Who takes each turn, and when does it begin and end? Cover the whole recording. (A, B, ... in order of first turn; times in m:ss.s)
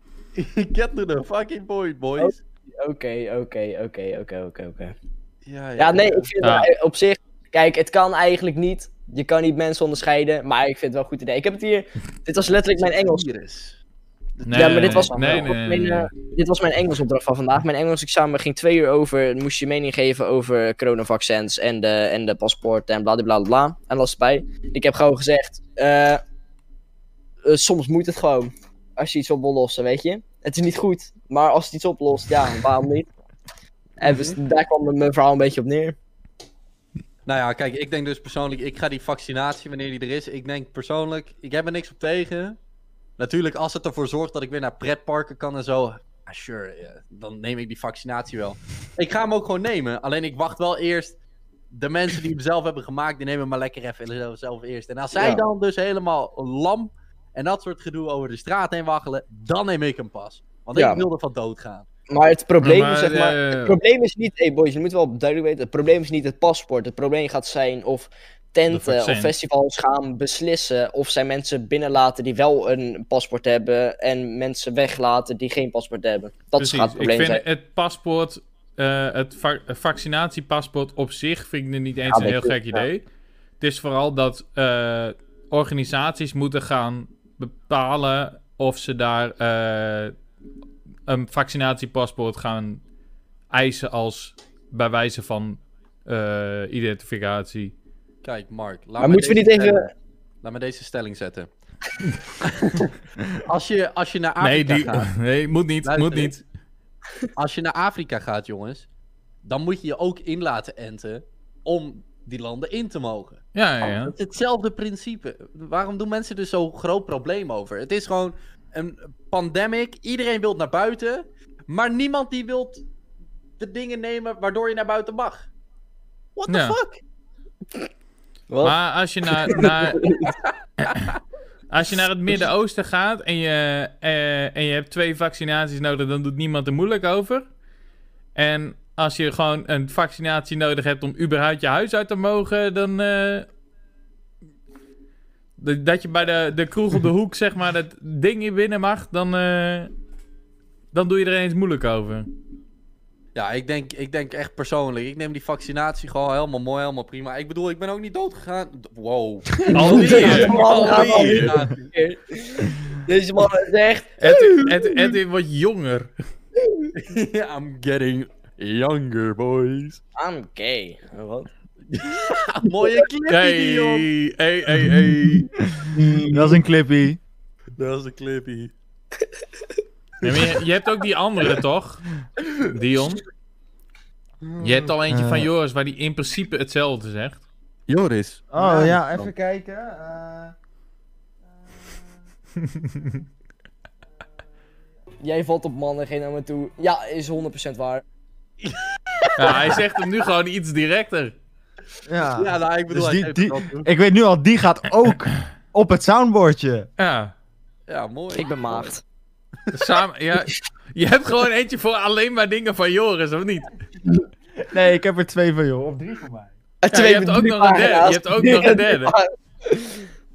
0:00.4-0:02.4 A
0:02.2-0:04.9 B
0:05.5-0:06.3 A
0:05.8-0:13.3 B
0:06.4-0:06.7 C
0:12.7-0:13.8 A
0:14.4-0:15.5 A
0:14.5-0:16.1 C
0:14.5-0:26.2 B
0:27.4-0:33.1 B
0:34.0-0:36.0 B
0:34.0-0:34.4 A
0:37.3-0:42.6 A
0:43.2-0:51.2 A
0:51.7-1:01.9 A
0:55.2-0:55.4 B
1:00.8-1:01.0 B
1:02.1-1:17.4 B
1:02.6-1:03.8 C
1:08.7-1:09.3 C
1:16.6-1:23.0 C
1:22.1-1:22.9 B
1:23.6-1:30.1 C
1:31.1-1:32.8 C
1:33.5-1:37.7 C
1:38.2-1:39.9 A
1:39.0-1:39.9 B
1:40.4-1:41.5 A
1:42.4-1:45.1 A
1:44.4-1:46.4 C
1:45.8-1:46.4 A
1:47.4-1:48.9 A
1:49.4-2:02.8 A
1:53.6-1:54.2 C
2:03.6-2:05.5 A
2:06.4-2:07.0 A
2:06.5-2:06.8 C
2:08.5-2:08.8 B
2:08.6-2:10.2 C
2:09.4-2:10.3 B
2:10.9-2:11.2 A
2:11.7-2:17.5 C
2:18.4-2:23.5 C
2:25.6-2:29.9 C
2:30.9-2:32.3 C
2:33.4-2:41.9 A
2:39.7-2:41.6 C
2:39.7-2:44.8 B
2:44.2-2:46.1 C
2:46.9-2:50.0 A
2:50.2-2:51.5 B
2:51.9-2:54.1 A
2:53.3-2:55.5 C
2:55.8-2:57.2 D
2:56.0-2:56.5 A
2:57.8-2:58.7 A
3:00.2-3:02.1 C
3:02.6-3:03.2 C
3:04.4-3:04.9 A
3:04.6-3:07.4 C
3:05.1-3:05.5 D
3:07.9-3:09.3 A
3:08.5-3:10.5 D
3:12.8-3:13.1 C
3:15.2-3:18.0 B
3:18.6-3:19.8 A
3:19.4-3:21.4 C
3:22.1-3:26.9 D
3:22.4-3:23.9 A
3:27.0-3:27.3 C
3:27.9-3:28.9 A
3:28.4-3:29.0 B
3:29.7-3:33.7 C
3:34.7-3:36.5 D
3:36.8-3:40.1 B
3:36.9-3:39.1 C